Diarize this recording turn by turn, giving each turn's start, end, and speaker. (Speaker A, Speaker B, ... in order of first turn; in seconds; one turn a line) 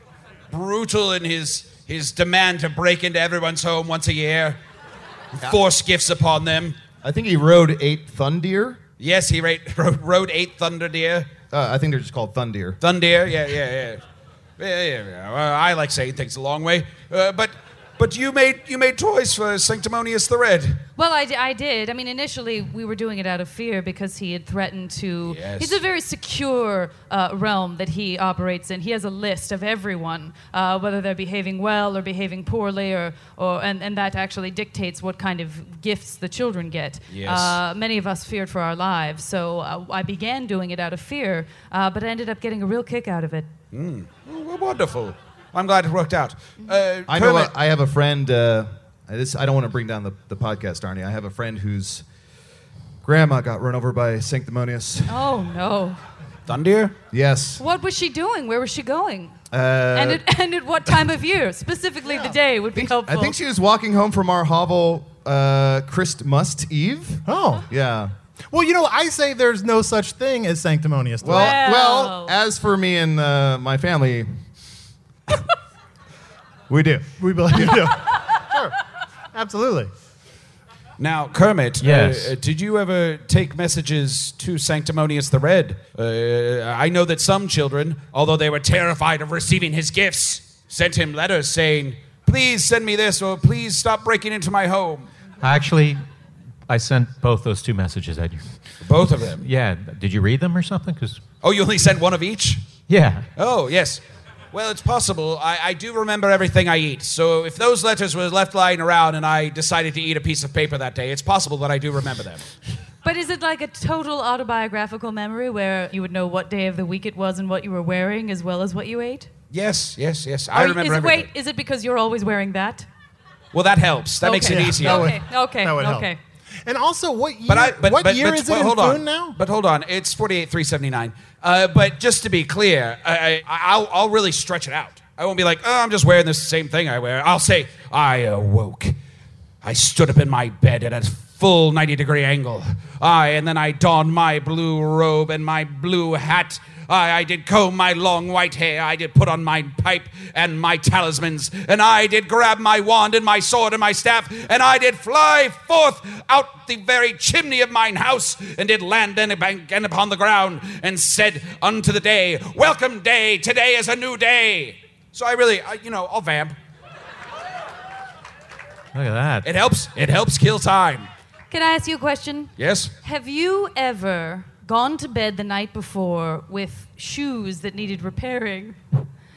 Speaker A: 0.5-4.6
Speaker A: 5.3-6.8
Speaker B: 7.0-8.8
Speaker A: 9.0-11.3
Speaker B: 11.5-12.8
Speaker A: 12.8-14.0
Speaker A: 14.6-20.8
Speaker C: 21.0-43.5
Speaker A: 25.2-25.8
Speaker A: 37.1-37.6
Speaker A: 43.7-47.5
Speaker B: 47.1-52.0
Speaker B: 53.0-55.2
Speaker C: 55.1-56.0
Speaker A: 56.5-56.9
Speaker B: 57.1-57.6
Speaker C: 57.6-59.4
Speaker B: 59.5-60.2
Speaker C: 59.9-63.4
Speaker D: 62.1-62.3
Speaker B: 62.7-68.1
Speaker D: 67.2-67.6
Speaker D: 68.5-71.6
Speaker B: 71.2-74.3
Speaker C: 71.2-72.3
Speaker B: 76.7-77.8
Speaker D: 77.2-78.7
Speaker D: 79.3-79.9
Speaker A: 81.0-95.1
Speaker E: 81.8-82.3
Speaker E: 95.4-96.0
Speaker E: 96.7-98.4
Speaker A: 98.8-99.4
Speaker E: 99.4-101.2
Speaker A: 101.4-102.6
Speaker E: 102.9-103.2
Speaker A: 103.4-104.0
Speaker A: 104.5-112.4
Speaker C: 113.0-119.3
Speaker A: 119.5-121.3
Speaker C: 120.5-122.9
Speaker A: 123.5-125.2
Speaker C: 124.2-126.2
Speaker D: 124.4-126.1
Speaker D: 126.7-129.4
Speaker A: 127.5-139.0
Speaker A: 139.6-166.6
Speaker E: 168.9-169.5
Speaker A: 169.4-171.1
Speaker C: 171.5-172.5
Speaker A: 172.6-172.9
Speaker C: 173.0-178.8